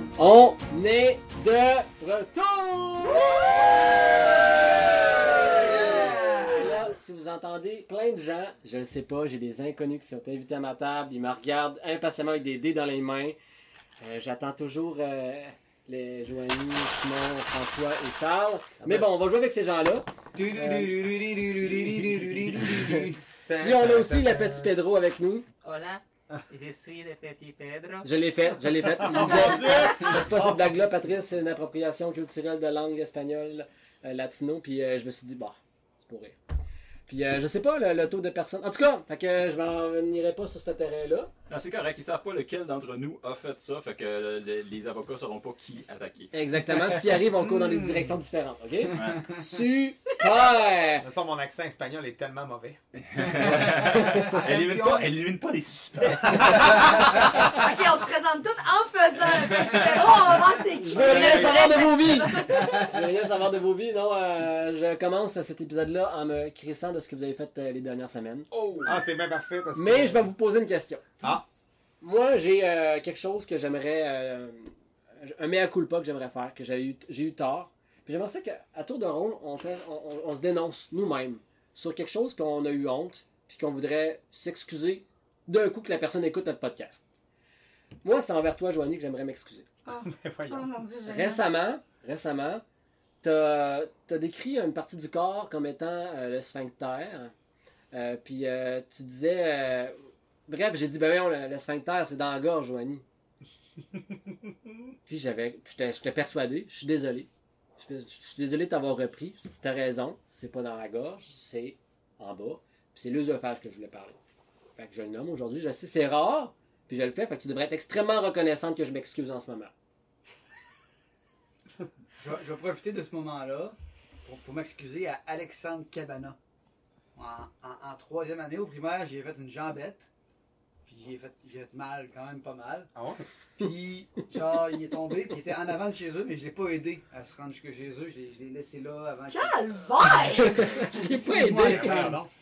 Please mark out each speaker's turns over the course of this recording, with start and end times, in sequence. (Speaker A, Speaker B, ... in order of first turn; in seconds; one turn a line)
Speaker A: 0.2-3.7
Speaker A: 5.4-13.4
Speaker B: 5.5-6.7
Speaker A: 14.0-20.9
Speaker C: 18.8-19.1
Speaker D: 20.4-23.2
Speaker C: 23.5-24.7
Speaker A: 23.6-25.5
Speaker E: 25.6-28.1
Speaker A: 28.0-36.4
Speaker C: 29.0-30.8
Speaker B: 29.2-29.9
Speaker A: 37.1-41.3
Speaker F: 41.5-46.3
Speaker A: 46.3-51.1
Speaker F: 48.9-49.3
Speaker C: 51.0-52.8
Speaker F: 53.1-57.6
Speaker C: 54.2-55.1
Speaker C: 56.3-57.1
Speaker B: 57.4-63.0
Speaker F: 59.2-60.2
Speaker A: 60.7-68.5
Speaker C: 60.9-61.7
Speaker F: 68.5-68.9
Speaker C: 68.8-70.3
Speaker A: 69.7-71.2
Speaker A: 72.0-87.0
Speaker A: 88.0-89.7
Speaker B: 89.8-91.5
Speaker C: 89.9-90.7
Speaker A: 91.1-92.6
Speaker A: 93.2-97.3
Speaker A: 97.9-100.0
Speaker A: 100.5-103.0
Speaker A: 105.1-114.2
Speaker A: 114.8-119.7
Speaker D: 122.2-126.4
Speaker D: 127.2-130.1
Speaker D: 130.8-132.9
Speaker C: 132.9-133.2
Speaker D: 133.6-139.7
Speaker B: 139.3-140.9
Speaker A: 140.4-142.1
Speaker D: 140.6-142.2
Speaker C: 141.6-142.3